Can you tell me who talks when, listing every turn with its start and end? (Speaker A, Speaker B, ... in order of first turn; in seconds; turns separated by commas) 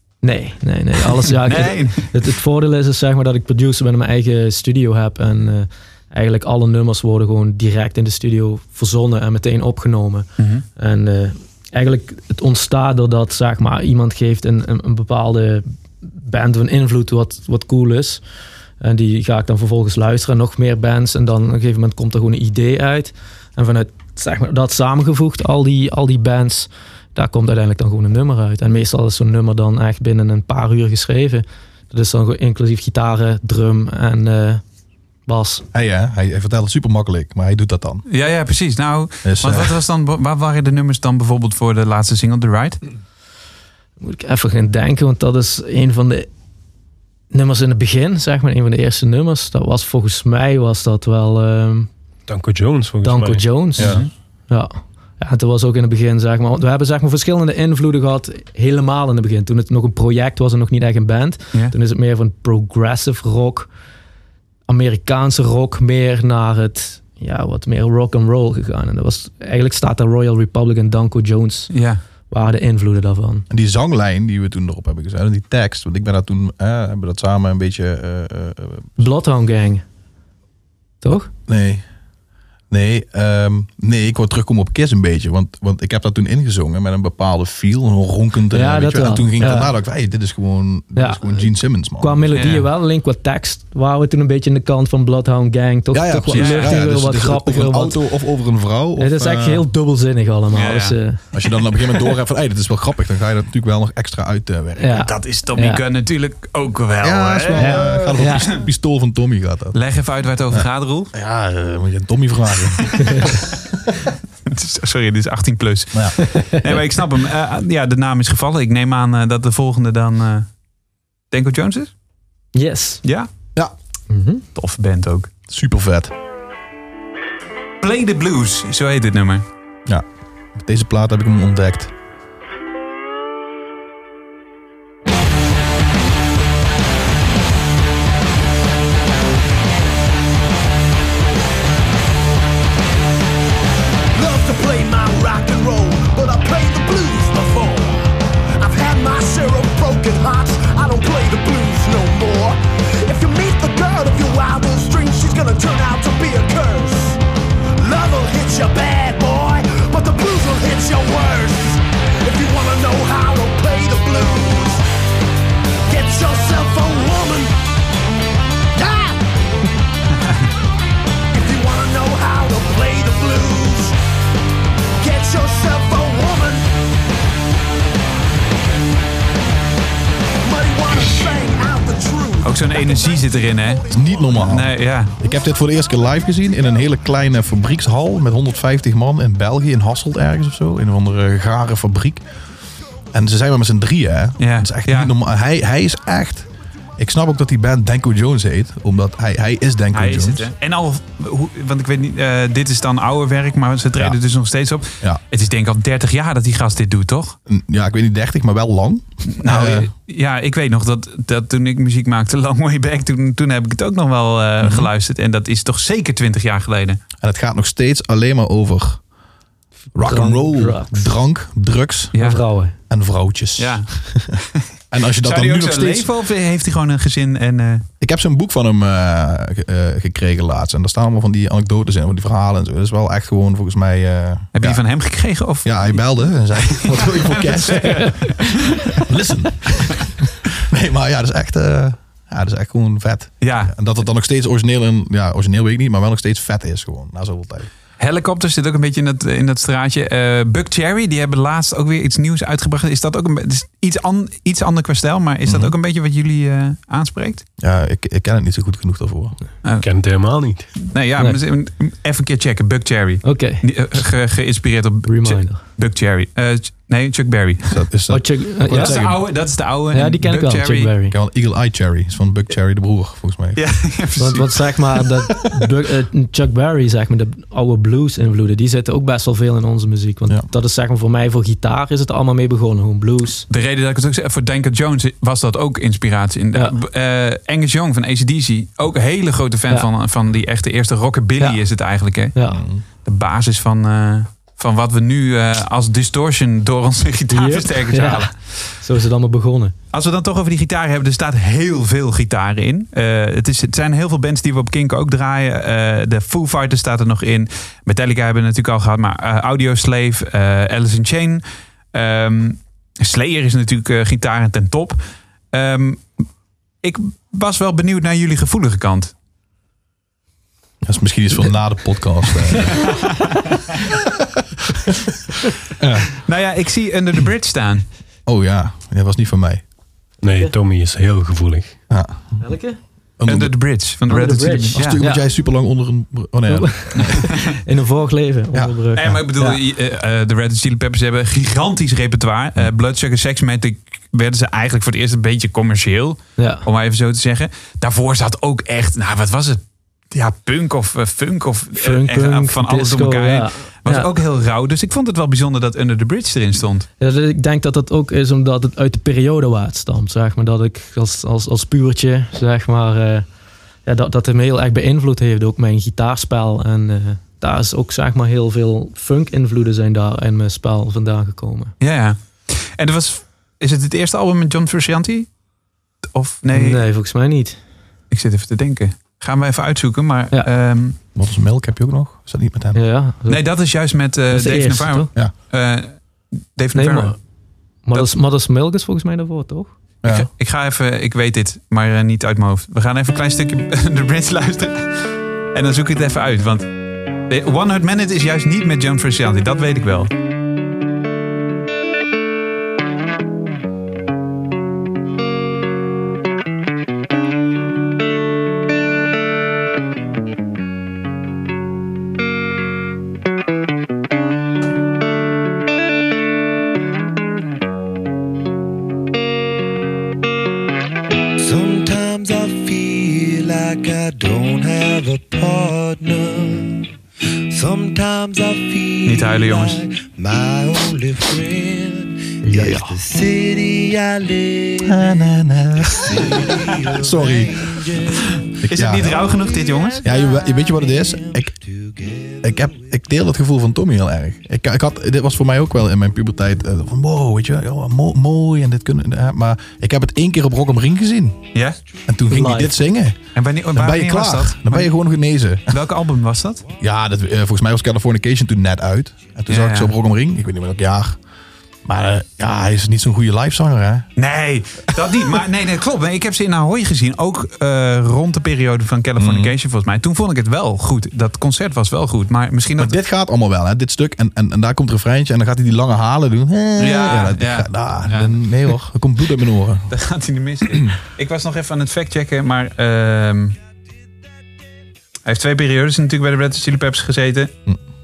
Speaker A: 0.2-18.2, Speaker B: 1.2-2.1, Speaker B: 10.4-10.6, Speaker A: 18.8-34.6, Speaker A: 35.2-35.6, Speaker C: 35.7-38.0, Speaker B: 38.1-42.8, Speaker C: 39.2-39.8, Speaker A: 44.0-46.3, Speaker A: 47.3-51.9, Speaker D: 52.3-54.0, Speaker A: 53.0-54.0, Speaker C: 53.8-54.1, Speaker B: 53.8-54.1, Speaker A: 54.5-63.7, Speaker A: 64.7-71.7, Speaker B: 71.7-72.0, Speaker A: 72.3-73.5, Speaker C: 73.5-79.0, Speaker A: 79.0-79.8, Speaker A: 81.0-81.3, Speaker C: 81.1-81.8, Speaker C: 82.7-92.3, Speaker A: 88.5-89.7, Speaker A: 90.9-98.0, Speaker B: 92.3-92.7, Speaker C: 95.9-99.7, Speaker B: 96.3-96.8, Speaker A: 99.0-101.2, Speaker B: 100.5-101.0, Speaker C: 101.3-105.1, Speaker A: 104.8-105.8, Speaker B: 105.0-108.6, Speaker C: 107.0-109.8, Speaker A: 107.6-108.5, Speaker B: 109.7-111.1, Speaker C: 110.5-113.3, Speaker B: 114.5-120.5, Speaker A: 116.2-116.6, Speaker B: 121.3-121.9, Speaker A: 122.5-123.0, Speaker B: 123.0-123.3, Speaker A: 124.1-124.4, Speaker B: 124.5-125.3, Speaker C: 125.5-126.1, Speaker B: 127.8-129.4, Speaker C: 129.9-131.9, Speaker E: 144.1-157.2, Speaker E: 157.8-164.8, Speaker E: 165.9-167.5, Speaker E: 168.8-169.2, Speaker E: 171.3-173.9, Speaker E: 175.0-176.7, Speaker E: 180.4-184.1, Speaker B: 182.4-185.1, Speaker C: 183.9-192.2, Speaker C: 193.1-200.5, Speaker B: 194.4-195.1, Speaker B: 199.9-207.3, Speaker C: 207.5-209.9, Speaker B: 209.4-217.0, Speaker C: 214.6-214.9, Speaker C: 217.2-219.0, Speaker C: 219.9-222.1, Speaker A: 220.0-221.1, Speaker B: 222.1-222.4, Speaker A: 222.2-222.7, Speaker C: 222.9-224.4, Speaker B: 223.6-224.4, Speaker C: 224.9-226.1, Speaker B: 225.2-227.8, Speaker C: 228.0-234.8, Speaker B: 234.5-239.0, Speaker C: 235.6-247.7, Speaker B: 243.4-243.7, Speaker B: 248.0-257.4, Speaker C: 255.4-255.7, Speaker C: 257.6-259.4, Speaker D: 259.8-260.7, Speaker B: 260.8-267.9, Speaker A: 263.2-263.6, Speaker A: 265.1-265.6, Speaker C: 267.7-269.2, Speaker A: 268.1-269.3, Speaker B: 268.6-270.9, Speaker A: 269.9-271.1, Speaker C: 271.1-273.6, Speaker B: 273.6-274.7, Speaker A: 274.2-283.4, Speaker B: 283.5-292.4, Speaker A: 292.3-292.6, Speaker C: 292.5-292.8, Speaker B: 293.0-298.5, Speaker A: 297.3-299.7, Speaker B: 299.9-315.0, Speaker B: 315.5-316.2, Speaker B: 316.8-319.1, Speaker C: 320.8-322.9, Speaker B: 322.8-323.4, Speaker C: 325.8-326.1, Speaker B: 326.2-327.9, Speaker C: 328.2-329.6, Speaker D: 330.2-331.8, Speaker C: 331.9-332.4, Speaker A: 332.4-332.8, Speaker C: 333.2-333.5, Speaker B: 333.2-335.0, Speaker A: 334.1-335.2, Speaker C: 334.7-337.3, Speaker A: 336.5-339.6, Speaker B: 337.0-337.2, Speaker B: 338.9-356.9, Speaker A: 346.4-346.6, Speaker A: 351.8-354.1, Speaker A: 357.0-363.2, Speaker A: 363.9-371.7, Speaker B: 371.8-375.3, Speaker B: 376.1-376.8, Speaker A: 376.5-377.6, Speaker B: 378.1-381.0, Speaker C: 381.1-382.8, Speaker A: 382.7-383.4, Speaker B: 383.3-386.0, Speaker A: 384.3-385.1, Speaker B: 386.5-387.1, Speaker A: 386.7-387.2, Speaker A: 387.8-389.7, Speaker C: 390.0-390.3, Speaker B: 390.1-396.7, Speaker B: 397.3-400.1, Speaker F: 421.4-426.8, Speaker F: 427.5-434.7, Speaker B: 429.0-429.9, Speaker A: 432.4-432.9, Speaker C: 432.5-432.8, Speaker C: 434.8-437.7, Speaker F: 436.8-437.9, Speaker C: 438.6-439.3, Speaker B: 438.6-440.1, Speaker C: 440.0-441.6, Speaker F: 441.9-442.2, Speaker C: 442.4-451.5, Speaker B: 451.5-451.8, Speaker C: 452.1-453.2, Speaker A: 452.3-452.8, Speaker B: 453.3-454.9, Speaker C: 453.7-455.8, Speaker B: 455.7-456.6, Speaker C: 456.8-461.2, Speaker B: 459.5-459.9, Speaker C: 461.9-464.1, Speaker B: 464.2-472.9, Speaker C: 464.9-465.4, Speaker C: 469.2-469.5, Speaker C: 472.8-479.9, Speaker B: 476.8-478.7, Speaker B: 479.9-483.6, Speaker B: 485.2-487.5